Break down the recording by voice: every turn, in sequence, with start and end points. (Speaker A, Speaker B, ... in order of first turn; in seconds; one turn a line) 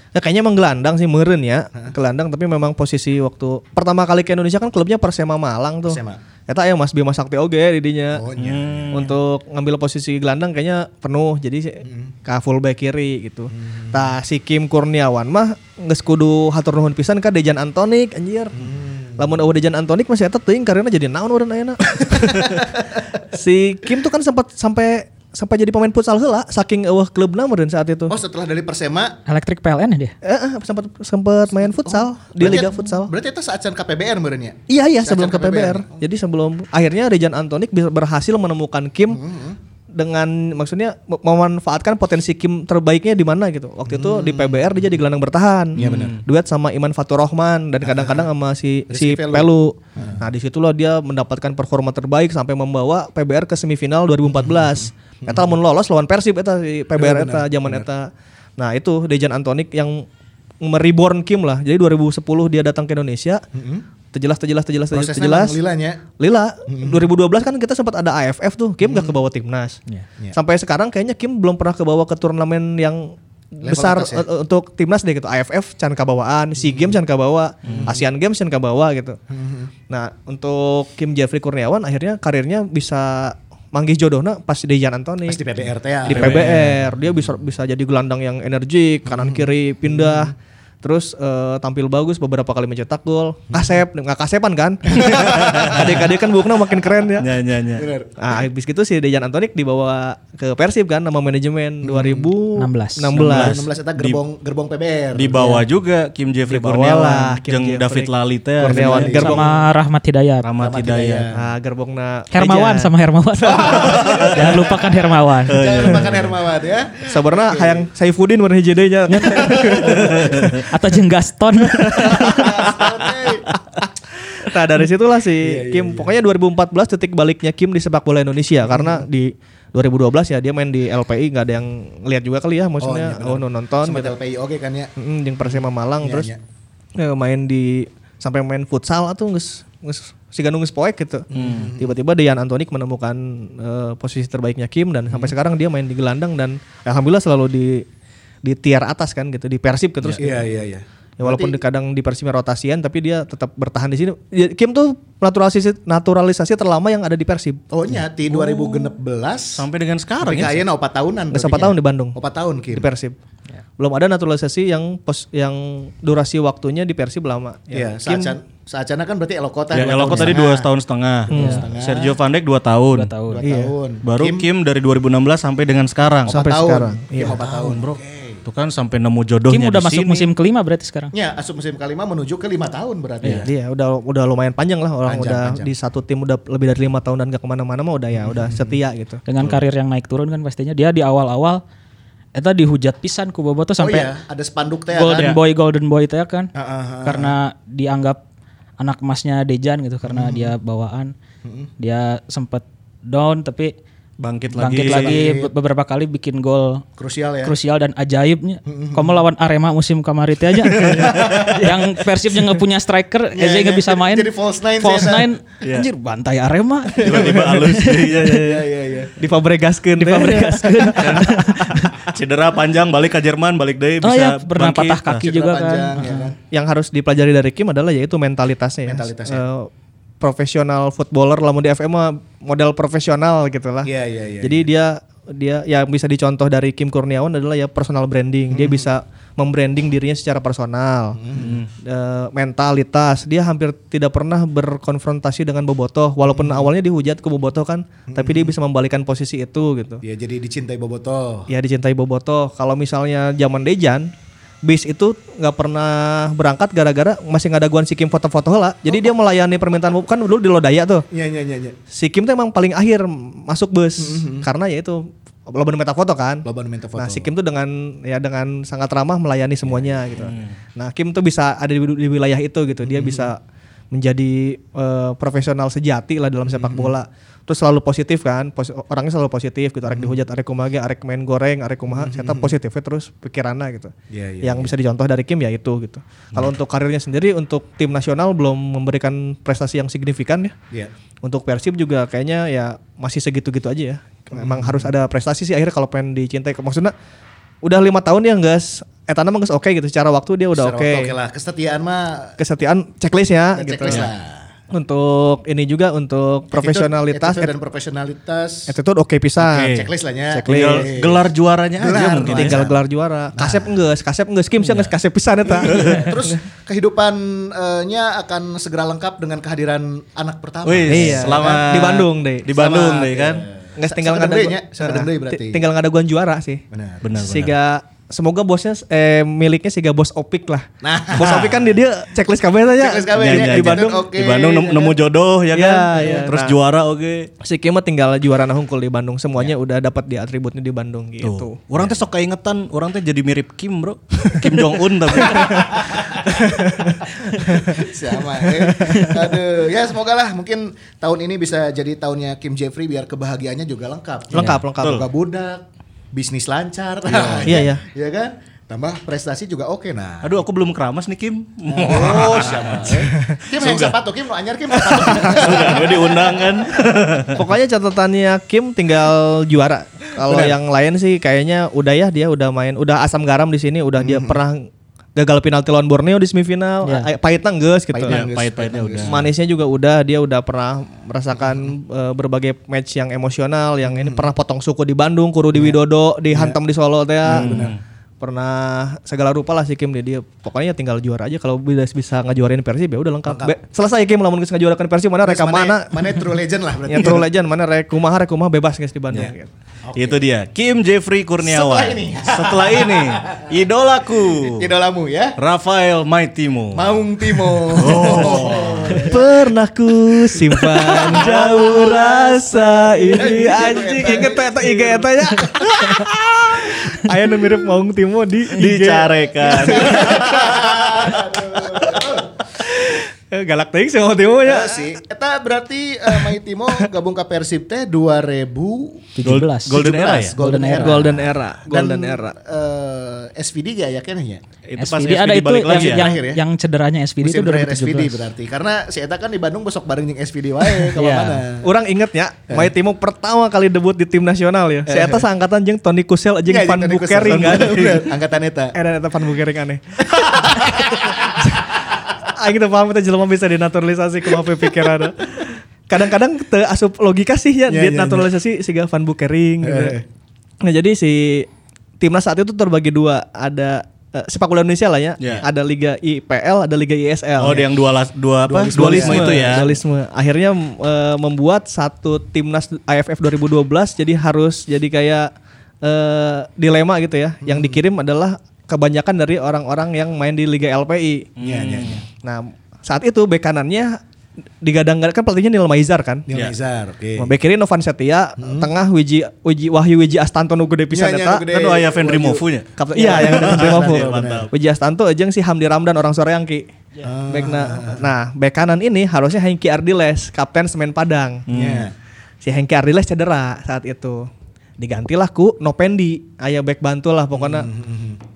Speaker A: 0.1-8.2
Speaker B: 5.8-6.2
Speaker B: 8.1-9.1
Speaker C: 8.4-9.1
Speaker A: 8.9-28.1
Speaker B: 11.8-12.1
Speaker B: 13.5-14.1
Speaker B: 18.6-19.3
Speaker B: 22.0-22.9
Speaker B: 28.1-29.2
Speaker D: 29.2-30.1
Speaker A: 30.2-33.1
Speaker B: 31.7-36.0
Speaker A: 34.7-39.2
Speaker B: 39.1-39.6
Speaker A: 39.9-60.0
Speaker B: 43.9-44.7
Speaker B: 45.7-46.2
Speaker C: 45.8-46.2
Speaker B: 47.8-48.2
Speaker B: 48.9-50.2
Speaker B: 54.3-55.5
Speaker B: 57.0-57.9
Speaker A: 60.6-63.4
Speaker B: 63.5-63.8
Speaker A: 64.1-65.6
Speaker B: 64.9-66.0
Speaker A: 66.2-69.8
Speaker B: 66.7-67.0
Speaker B: 68.8-69.2
Speaker A: 70.3-79.2
Speaker B: 73.6-74.2
Speaker B: 76.6-76.9
Speaker C: 77.6-77.9
Speaker B: 77.7-78.0
Speaker B: 79.3-79.7
Speaker A: 79.9-85.4
Speaker B: 85.3-86.6
Speaker A: 86.0-97.3
Speaker C: 86.1-86.8
Speaker B: 89.1-90.3
Speaker B: 94.9-95.9
Speaker C: 95.1-96.0
Speaker C: 97.2-97.9
Speaker B: 97.8-98.4
Speaker A: 98.2-103.6
Speaker B: 101.8-102.3
Speaker D: 102.5-103.1
Speaker C: 103.1-104.2
Speaker B: 103.2-105.5
Speaker C: 105.1-109.4
Speaker A: 106.5-109.5
Speaker B: 108.6-109.5
Speaker D: 109.1-110.5
Speaker C: 110.4-111.2
Speaker B: 110.6-111.4
Speaker A: 111.3-112.9
Speaker D: 112.3-115.6
Speaker B: 113.4-114.8
Speaker A: 113.6-113.8
Speaker C: 113.7-114.6
Speaker C: 115.5-116.3
Speaker B: 115.5-117.8
Speaker A: 117.0-120.7
Speaker D: 119.1-120.0
Speaker B: 119.3-120.3
Speaker C: 120.2-120.6
Speaker D: 120.7-122.6
Speaker A: 121.7-122.9
Speaker B: 122.0-123.5
Speaker A: 123.5-134.1
Speaker B: 125.4-126.1
Speaker B: 128.7-129.0
Speaker B: 132.8-134.9
Speaker A: 135.0-136.3
Speaker B: 135.5-136.4
Speaker A: 136.9-147.9
Speaker B: 141.3-141.9
Speaker C: 141.3-141.7
Speaker A: 148.4-150.4
Speaker B: 150.2-151.6
Speaker A: 151.2-157.6
Speaker B: 157.7-159.6
Speaker C: 158.3-158.9
Speaker C: 159.5-160.6
Speaker B: 160.2-162.9
Speaker A: 161.3-162.2
Speaker A: 162.7-163.2
Speaker A: 163.8-168.3
Speaker B: 167.7-170.7
Speaker C: 169.7-173.1
Speaker A: 170.1-170.3
Speaker B: 171.3-172.2
Speaker A: 171.3-171.7
Speaker D: 171.3-171.6
Speaker D: 172.9-173.4
Speaker B: 173.3-174.4
Speaker A: 173.4-173.7
Speaker C: 174.0-176.4
Speaker A: 176.3-177.4
Speaker B: 176.3-178.4
Speaker C: 177.2-180.3
Speaker D: 179.5-181.1
Speaker B: 181.1-183.5
Speaker A: 183.2-189.2
Speaker B: 185.0-185.7
Speaker B: 188.1-188.8
Speaker D: 189.3-191.6
Speaker D: 192.3-194.1
Speaker B: 193.8-195.4
Speaker D: 194.9-196.5
Speaker B: 196.5-197.3
Speaker D: 197.0-198.2
Speaker D: 198.8-201.1
Speaker B: 200.0-200.5
Speaker B: 201.4-201.7
Speaker D: 201.8-203.7
Speaker C: 204.2-205.2
Speaker D: 204.6-206.8
Speaker B: 204.8-205.5
Speaker B: 207.0-207.5
Speaker D: 207.4-218.3
Speaker B: 208.7-209.2
Speaker C: 210.8-211.6
Speaker B: 210.8-211.7
Speaker B: 213.3-215.3
Speaker C: 215.6-215.9
Speaker C: 217.0-218.7
Speaker B: 217.0-217.4
Speaker B: 218.2-219.1
Speaker A: 219.2-221.9
Speaker D: 219.9-221.9
Speaker C: 221.0-225.2
Speaker D: 224.0-226.2
Speaker B: 225.2-226.4
Speaker A: 226.0-233.9
Speaker B: 228.8-229.4
Speaker B: 233.8-234.7
Speaker A: 234.4-250.0
Speaker B: 238.5-238.9
Speaker B: 241.2-241.6
Speaker C: 241.3-241.7
Speaker B: 246.3-246.7
Speaker B: 248.1-248.5
Speaker B: 250.0-251.5
Speaker A: 251.5-254.1
Speaker A: 254.6-261.1
Speaker B: 261.1-261.8
Speaker A: 261.9-273.4
Speaker B: 264.0-264.5
Speaker B: 266.4-267.3
Speaker B: 269.6-270.0
Speaker C: 270.2-270.5
Speaker B: 272.8-273.3
Speaker A: 273.9-290.5
Speaker B: 276.5-276.9
Speaker B: 279.9-280.2
Speaker B: 281.9-282.5
Speaker B: 284.1-284.7
Speaker A: 291.2-296.9
Speaker B: 294.3-294.9
Speaker A: 297.6-301.1
Speaker B: 300.5-302.4
Speaker A: 302.4-304.1
Speaker B: 303.5-304.5
Speaker A: 304.7-307.5
Speaker B: 306.5-308.7
Speaker A: 308.7-309.8
Speaker C: 309.4-309.9
Speaker B: 309.6-312.8
Speaker A: 310.3-310.9
Speaker C: 310.5-312.6
Speaker A: 312.2-316.4
Speaker B: 313.3-313.7
Speaker C: 314.6-314.9
Speaker B: 315.4-321.7
Speaker C: 315.6-316.1
Speaker C: 320.6-323.4
Speaker A: 320.9-322.6
Speaker B: 322.5-325.6
Speaker A: 323.8-326.6
Speaker B: 326.7-327.1
Speaker C: 327.0-327.5
Speaker A: 327.1-334.1
Speaker B: 330.8-331.8
Speaker B: 332.7-335.0
Speaker C: 333.1-337.3
Speaker A: 335.5-336.6
Speaker A: 337.4-341.9
Speaker C: 341.2-346.3
Speaker A: 345.1-349.4
Speaker B: 345.3-346.3
Speaker B: 347.3-360.4
Speaker A: 354.3-355.0
Speaker C: 354.5-355.1
Speaker C: 357.1-357.7
Speaker A: 357.4-357.8
Speaker C: 360.2-364.0
Speaker B: 361.7-366.8
Speaker A: 362.9-363.4
Speaker C: 364.8-367.4
Speaker A: 367.3-378.2
Speaker B: 370.2-370.6
Speaker B: 374.0-374.4
Speaker B: 377.9-379.2
Speaker C: 378.1-379.2
Speaker A: 379.1-396.3
Speaker B: 383.8-384.3
Speaker B: 386.3-386.6
Speaker B: 387.2-387.7
Speaker C: 387.2-387.8
Speaker B: 393.3-393.5
Speaker B: 395.2-397.2
Speaker A: 396.9-399.5
Speaker B: 399.9-400.2
Speaker C: 399.9-404.7
Speaker B: 401.4-403.5
Speaker B: 404.4-405.4
Speaker C: 405.4-409.2
Speaker B: 406.7-409.4
Speaker A: 407.8-425.0
Speaker B: 410.5-415.8
Speaker C: 410.7-412.5
Speaker C: 418.5-421.1
Speaker B: 419.4-422.4
Speaker B: 424.4-429.1
Speaker A: 426.1-426.4
Speaker D: 429.1-429.8
Speaker C: 429.2-430.4
Speaker B: 429.7-434.4
Speaker D: 430.4-431.1
Speaker A: 430.6-432.4
Speaker C: 434.7-436.1
Speaker D: 434.8-438.2
Speaker B: 435.7-436.4
Speaker B: 437.2-441.7
Speaker D: 440.9-441.4
Speaker A: 441.6-448.1
Speaker B: 444.9-445.2
Speaker B: 446.4-448.7
Speaker C: 447.2-448.0
Speaker A: 448.7-460.0
Speaker B: 450.1-451.5
Speaker B: 457.7-458.3
Speaker B: 459.6-460.0
Speaker A: 460.6-461.5
Speaker A: 462.0-467.7
Speaker C: 465.2-465.4
Speaker C: 467.4-469.7
Speaker B: 468.4-469.7
Speaker A: 468.7-475.3
Speaker A: 475.8-481.3
Speaker B: 477.4-477.8
Speaker C: 481.4-482.0
Speaker B: 481.4-482.0
Speaker A: 482.2-484.0
Speaker A: 484.6-486.2
Speaker B: 486.3-487.3
Speaker A: 487.2-491.5
Speaker B: 488.4-488.7
Speaker B: 490.9-492.4
Speaker C: 491.5-494.5
Speaker A: 492.8-496.7
Speaker B: 492.9-494.5
Speaker B: 497.0-498.1
Speaker A: 497.3-501.4
Speaker C: 501.5-501.9
Speaker B: 501.5-501.9
Speaker A: 502.4-507.7
Speaker B: 507.3-508.2